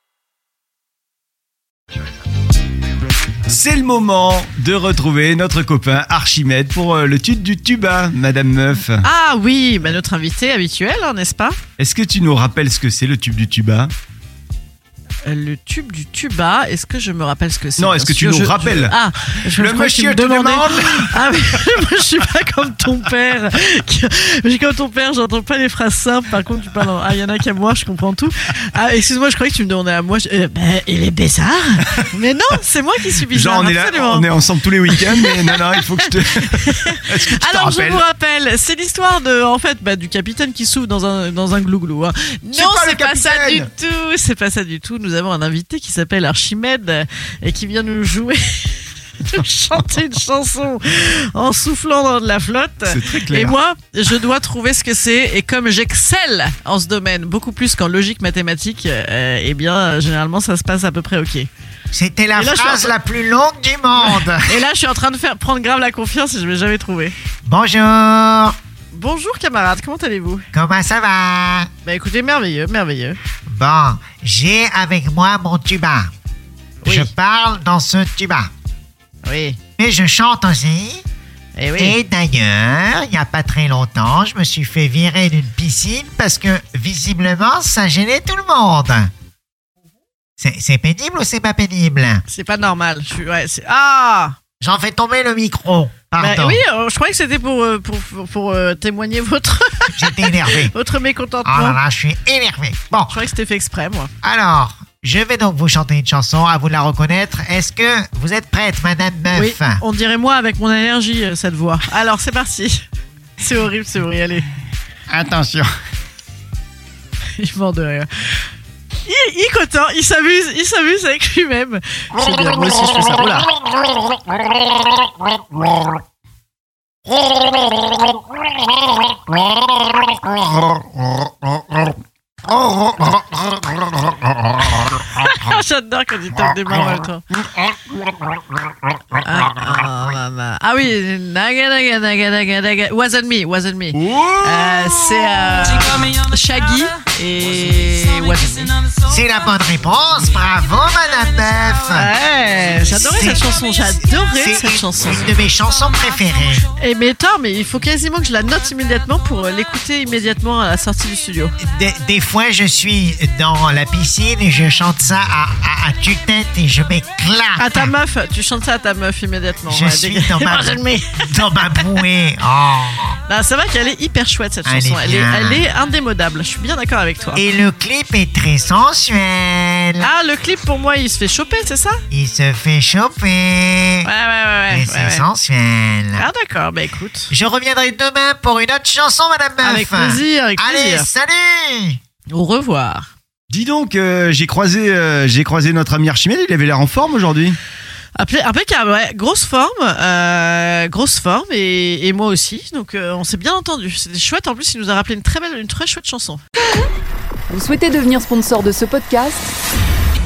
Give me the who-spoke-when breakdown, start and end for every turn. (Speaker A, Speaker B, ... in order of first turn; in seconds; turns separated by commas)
Speaker A: 3.5-9.0, Speaker B: 9.0-11.6, Speaker A: 11.8-13.9, Speaker B: 15.2-34.3, Speaker A: 17.8-21.3, Speaker A: 33.3-38.0, Speaker B: 34.9-61.5, Speaker A: 42.5-43.7, Speaker A: 52.8-53.5, Speaker C: 61.9-64.6, Speaker B: 62.3-62.9, Speaker B: 64.0-67.1, Speaker C: 67.4-68.5, Speaker B: 68.9-70.5, Speaker C: 70.5-71.7, Speaker B: 71.8-73.2, Speaker C: 73.5-76.1, Speaker B: 76.8-77.1, Speaker C: 76.8-78.5, Speaker B: 79.2-79.6, Speaker C: 79.8-81.0, Speaker B: 81.5-82.0, Speaker C: 81.8-89.1, Speaker C: 90.4-92.2, Speaker B: 92.3-94.4, Speaker C: 94.6-96.6, Speaker B: 96.2-101.8, Speaker C: 99.9-100.7, Speaker C: 101.4-103.2, Speaker B: 103.1-104.1, Speaker C: 104.2-109.8, Speaker B: 109.3-112.8, Speaker B: 113.4-114.5, Speaker A: 115.1-115.7, Speaker B: 117.4-118.4, Speaker B: 119.0-123.5, Speaker B: 134.7-137.3, Speaker B: 139.1-148.7, Speaker A: 143.9-145.0, Speaker C: 149.1-152.1, Speaker B: 151.9-155.3, Speaker C: 152.8-153.4, Speaker C: 154.3-156.7, Speaker B: 156.8-161.5, Speaker C: 161.6-167.9, Speaker B: 167.6-171.3, Speaker C: 169.7-173.2, Speaker B: 173.3-177.4, Speaker C: 174.6-175.6, Speaker C: 177.3-180.1, Speaker B: 180.0-182.0, Speaker C: 182.1-184.1, Speaker B: 184.0-185.2, Speaker C: 184.7-186.3, Speaker B: 186.2-187.3, Speaker C: 187.3-192.0, Speaker B: 189.6-191.1, Speaker B: 192.3-193.1, Speaker A: 193.5-197.6, Speaker B: 198.2-206.4, Speaker D: 207.5-209.5